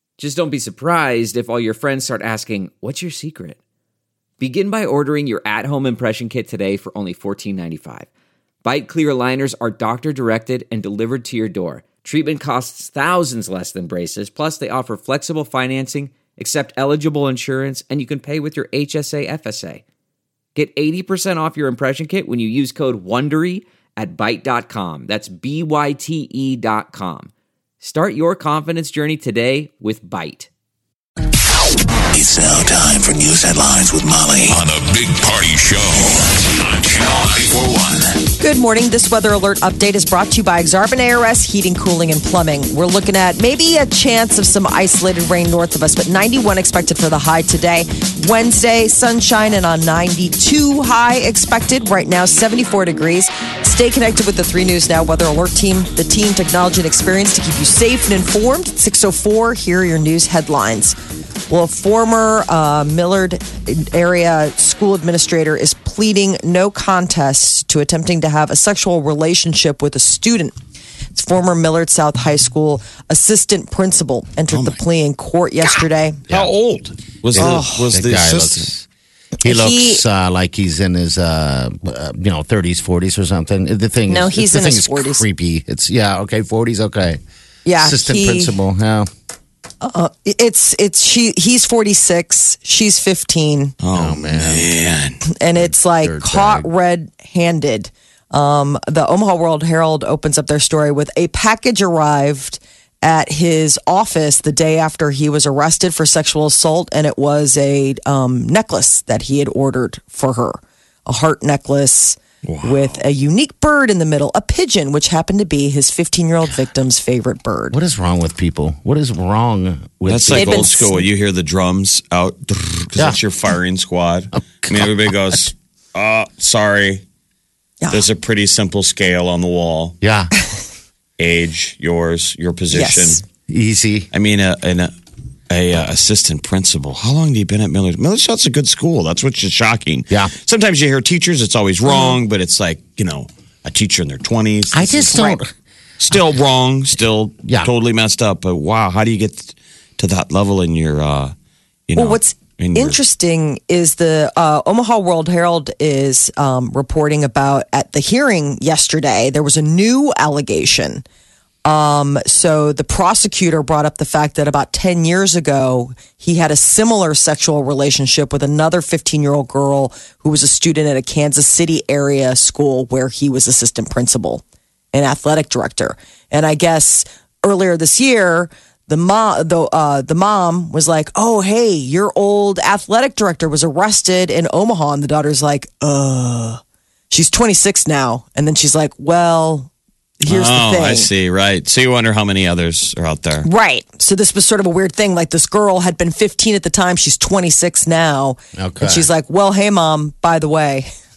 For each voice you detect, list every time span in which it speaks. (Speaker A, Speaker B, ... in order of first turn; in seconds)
Speaker A: 0.2-3.6, 4.4-8.1, 8.6-19.8, 20.6-27.3, 27.8-30.5
Speaker B: 32.1-38.2
Speaker C: 38.4-61.0, 61.5-70.5, 71.1-76.2, 77.4-77.8, 79.4-80.0, 84.1-85.2, 87.6-88.6, 89.8-93.8, 95.3-117.8, 120.3-121.0, 127.8-128.1, 132.7-133.2, 141.8-142.2, 151.9-161.0, 161.6-189.7, 190.2-191.1, 193.4-200.9
Speaker D: 74.5-74.8, 76.3-78.7, 93.8-95.2, 112.4-113.0, 120.0-127.0, 127.9-129.9, 131.2-133.2, 134.1-134.9, 135.5-145.2, 146.0-151.3, 151.9-153.0, 190.3-193.5
Speaker E: 77.3-78.9, 79.4-87.2, 87.8-89.1, 93.9-94.7, 95.5-96.7, 117.7-121.0, 124.6-125.4, 130.0-130.3, 133.5-134.1, 144.7-145.5, 147.4-147.7, 198.6-199.1